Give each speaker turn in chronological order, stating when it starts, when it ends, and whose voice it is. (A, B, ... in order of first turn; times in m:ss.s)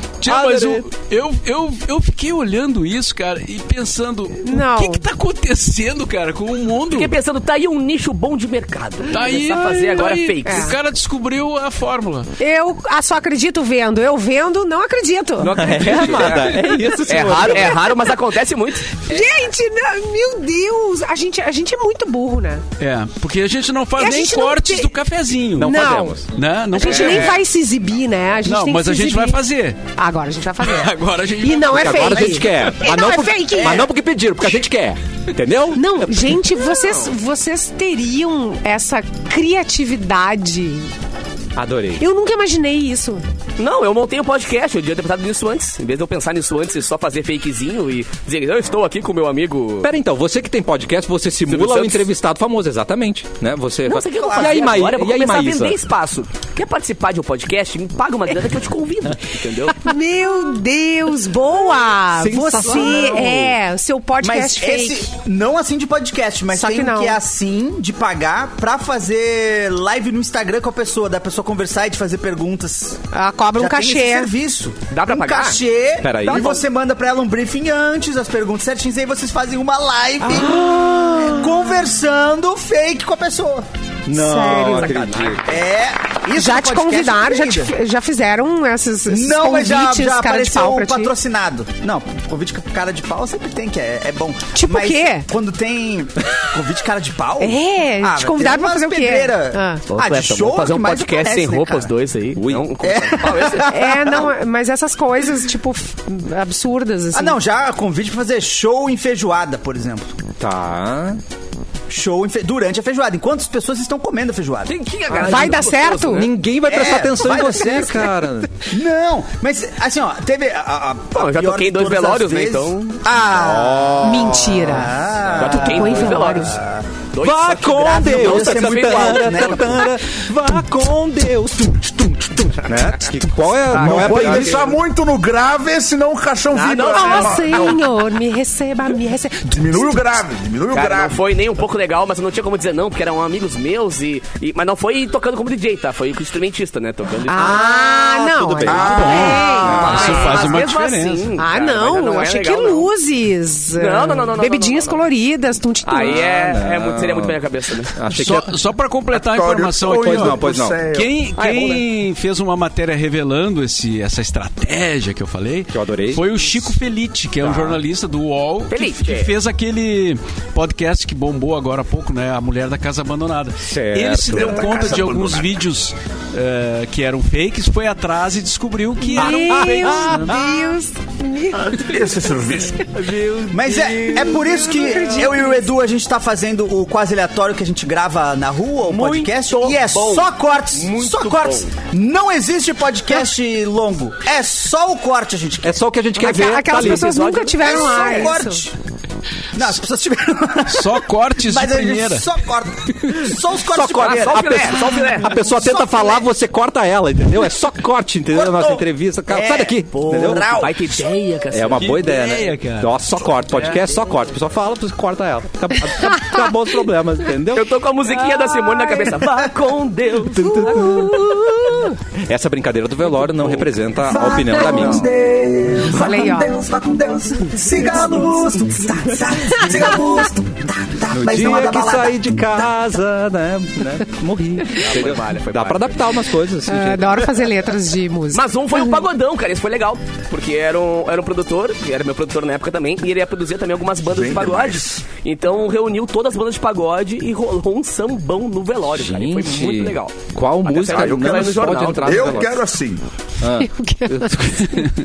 0:00.2-0:07.1 A
0:00.2-0:00.8 B
0:04.4-0:05.0 C
0:06.9-0:10.7 D
0:09.1-0:12.3 A
0:10.4-0:10.7 C
0:12.4-0:16.0 C
0:15.4-0:19.0 D
0:15.5-0:18.0 B
0:17.4-0:17.7 C
0:19.0-0:22.6 C
0:22.8-0:27.4 A
0:24.0-0:24.9 C
0:25.6-0:26.3 B
0:25.6-0:26.2 C
0:26.7-0:29.4 C
0:26.8-0:27.3 D
0:28.4-0:29.8 A
0:29.9-0:33.9 C
0:30.6-0:32.6 A
0:31.7-0:36.4 B
0:35.7-0:40.9 C
0:36.7-0:37.1 D
0:41.6-0:42.0 B
0:42.0-0:43.2 C
0:43.6-0:49.9 D
0:49.8-0:55.8 B
0:51.5-0:52.1 D
0:53.8-0:59.9 D
0:54.2-0:54.8 E
0:59.7-1:05.1 C
1:02.1-1:03.6 B
1:04.2-1:13.0 E
1:06.5-1:07.2 C
1:13.1-1:14.3 C
1:13.5-1:20.6 E
1:14.9-1:15.6 D
1:16.0-1:16.4 B
1:16.3-1:16.6 D
1:20.2-1:21.6 B
1:21.3-1:23.7 E
1:24.1-1:25.4 B
1:24.1-1:24.9 C
1:24.7-1:25.4 D
1:25.4-1:27.7 E
1:26.3-1:31.1 C
1:29.1-1:41.9 E
1:34.5-1:35.3 C
1:37.4-1:39.8 C
1:39.9-1:43.8 D
1:42.4-1:42.7 B
1:42.8-1:44.3 E
1:43.7-1:47.4 C
1:47.1-1:50.2 E
1:50.4-1:51.2 B
1:51.9-1:54.7 E
1:54.6-1:56.3 D
1:55.2-1:56.3 C
1:56.1-1:58.5 B
1:56.7-1:58.1 E
1:58.7-2:06.8 E
2:01.1-2:03.0 D
2:03.3-2:04.5 B
2:04.0-2:06.6 C
2:05.4-2:06.6 D
2:07.1-2:09.9 D
2:07.2-2:14.7 B
2:07.5-2:09.9 E
2:13.7-2:14.7 D
2:13.7-2:17.8 F
2:16.5-2:17.8 D
2:16.9-2:19.9 C
2:19.5-2:21.2 F
2:20.7-2:27.7 D
2:27.3-2:30.6 C
2:27.3-2:30.3 B
2:28.7-2:30.1 F
2:28.8-2:31.3 A
2:29.2-2:32.9 D
2:31.4-2:36.2 C
2:33.8-2:35.0 D
2:35.8-2:37.9 D
2:36.0-2:37.4 B
2:37.9-2:38.6 B
2:38.1-3:00.4 A
2:39.1-2:41.2 F
2:39.9-2:40.8 B
2:41.4-2:41.8 D
2:45.7-2:46.3 B
2:47.4-2:47.8 B
2:48.7-2:49.3 D
2:53.6-2:54.6 B
2:54.2-2:55.6 F
2:59.0-3:01.9 C
2:59.2-3:00.6 B
3:01.7-3:02.9 F
3:03.0-3:04.4 B
3:03.5-3:15.8 E
3:04.1-3:05.7 C
3:08.9-3:10.3 D
3:10.7-3:11.6 B
3:15.6-3:17.1 B
3:16.2-3:18.6 C
3:16.3-3:18.3 D
3:17.6-3:18.7 E
3:19.5-3:26.3 E
3:20.6-3:22.3 A
3:23.7-3:30.6 B
3:24.0-3:25.3 D
3:28.3-3:31.0 E
3:29.9-3:32.2 D
3:31.5-3:37.7 B
3:31.8-3:32.9 A
3:33.5-3:33.8 A
3:37.5-3:41.1 D
3:38.3-3:39.1 C
3:40.3-3:45.1 B
3:40.7-3:41.0 C
3:44.0-3:52.7 E
3:45.9-3:46.6 C
3:51.1-3:57.5 B
3:54.8-3:56.0 D
3:56.6-3:59.0 C
3:58.3-4:12.5 D
4:04.1-4:05.0 F
4:08.9-4:12.6 B
4:10.8-4:13.0 F
4:13.4-4:14.9 B
4:13.6-4:14.8 C